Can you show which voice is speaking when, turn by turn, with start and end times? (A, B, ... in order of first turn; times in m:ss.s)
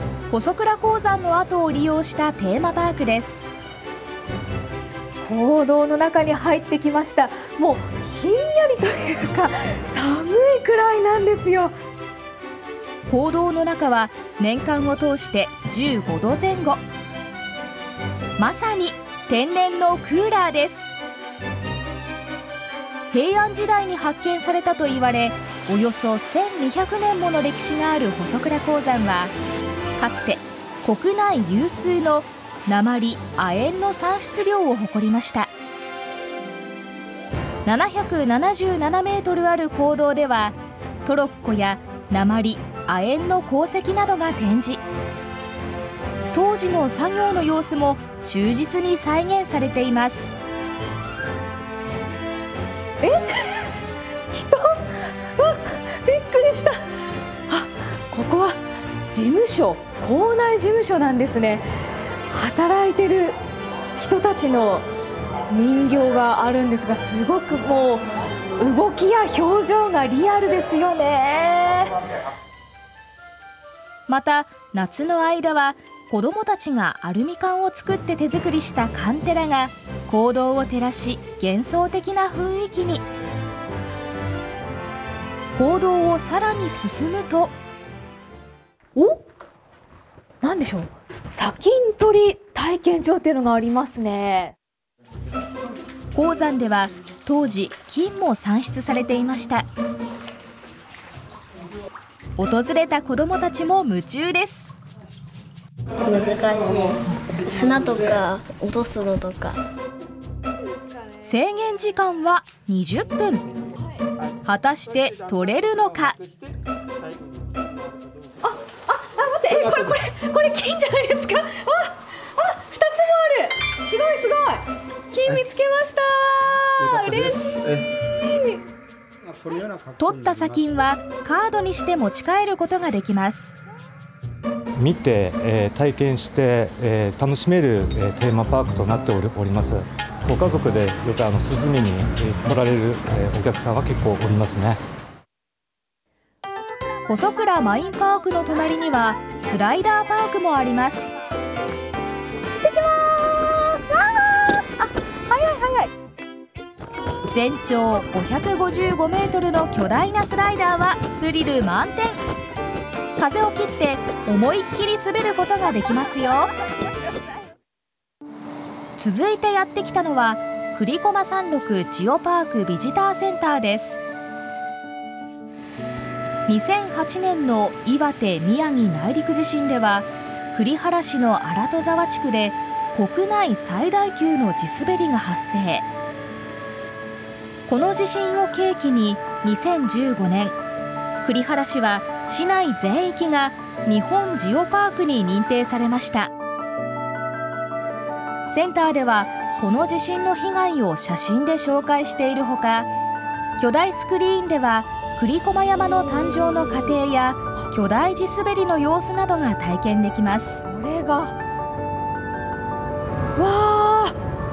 0:00.3-0:03.4 A
0:05.2-0:11.7 B
0:13.1-0:16.8 A
0:18.4-0:20.9 A
0:23.1-0:29.3 A
0:30.0-0:35.5 A
0:37.6-0:44.8 A
0:46.3-0:50.3 A
0:53.0-0:53.7 B
0:54.3-0:54.8 B
0:55.4-0:56.8 B
0:57.5-0:58.6 B
0:59.1-1:01.6 B
1:02.3-1:03.4 B
1:04.0-1:04.9 B
1:05.5-1:08.1 B
1:08.6-1:11.9 B
1:14.1-1:23.0 A
1:25.6-1:27.5 A
1:30.4-1:34.5 B
1:36.1-1:39.7 A
1:42.4-1:44.7 A
1:46.0-1:49.6 C
1:51.2-1:53.4 A
1:54.4-1:56.2 A
1:58.4-2:08.6 B
2:10.0-2:13.6 A
2:14.8-2:24.8 D
2:27.1-2:31.1 A
2:32.6-2:35.9 B
2:37.3-2:42.2 A
2:43.2-2:46.5 A
2:49.0-2:54.0 A
2:56.5-3:05.8 A
3:07.7-3:10.6 A
3:11.2-3:16.3 A
3:18.5-3:22.9 A
3:23.6-3:30.6 A
3:30.6-3:31.3 B
3:33.4-3:34.1 B